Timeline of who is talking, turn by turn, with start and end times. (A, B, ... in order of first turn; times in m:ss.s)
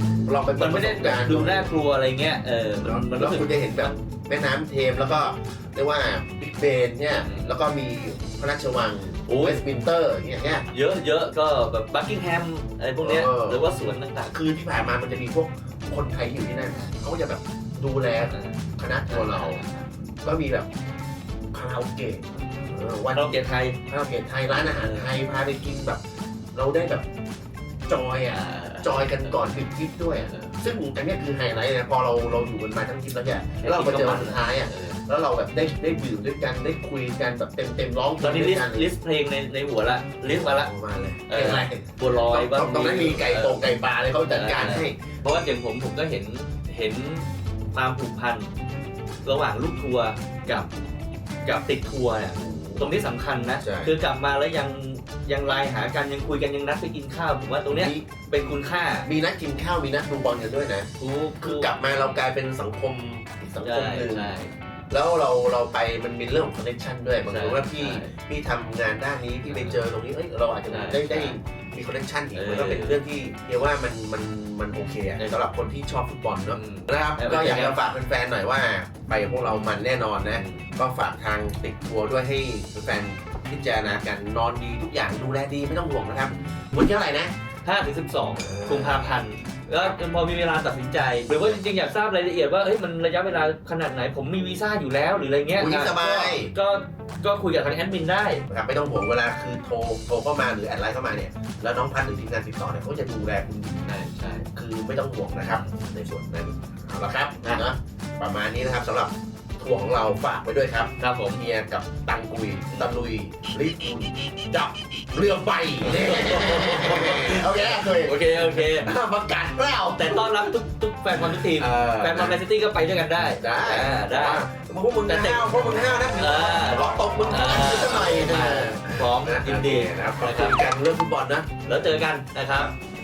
0:00.2-0:01.7 A
0:00.5-0:04.0 B
0:02.8-0:10.7 A
0:07.2-0:07.5 B
0:09.3-0:09.6 B
0:10.7-0:14.3 B
0:13.0-0:13.6 A
0:14.3-0:19.6 A
0:18.3-0:19.9 B
0:20.2-0:20.7 A
0:21.5-0:26.0 A
0:22.4-0:23.8 B
0:24.7-0:25.1 B
0:26.5-0:27.0 A
0:27.9-0:38.9 A
0:28.3-0:29.6 B
0:30.1-0:30.6 B
0:33.6-0:35.0 B
0:38.2-0:40.7 B
0:40.3-0:45.1 A
0:41.3-0:43.6 B
0:44.3-0:48.5 B
0:49.2-0:50.8 B
0:51.4-0:59.1 B
0:52.4-0:53.0 A
0:53.6-0:53.9 A
0:57.6-0:58.0 A
0:59.0-1:00.9 A
1:01.0-1:02.2 B
1:01.4-1:04.3 A
1:03.6-1:04.5 B
1:04.9-1:27.3 A
1:07.2-1:08.1 B
1:09.5-1:09.8 B
1:10.7-1:11.4 B
1:12.3-1:13.0 B
1:16.5-1:17.8 B
1:20.3-1:20.6 B
1:27.6-1:38.4 B
1:28.4-1:29.2 A
1:35.6-1:36.5 A
1:38.5-1:44.0 A
1:43.9-1:44.5 B
1:44.5-2:00.5 A
1:45.5-1:45.8 B
1:51.0-1:51.4 B
1:52.7-1:53.0 B
1:55.8-1:58.9 B
2:00.0-2:04.4 B
2:01.1-2:02.4 A
2:03.4-2:11.5 A
2:05.0-2:10.6 B
2:11.6-2:12.7 B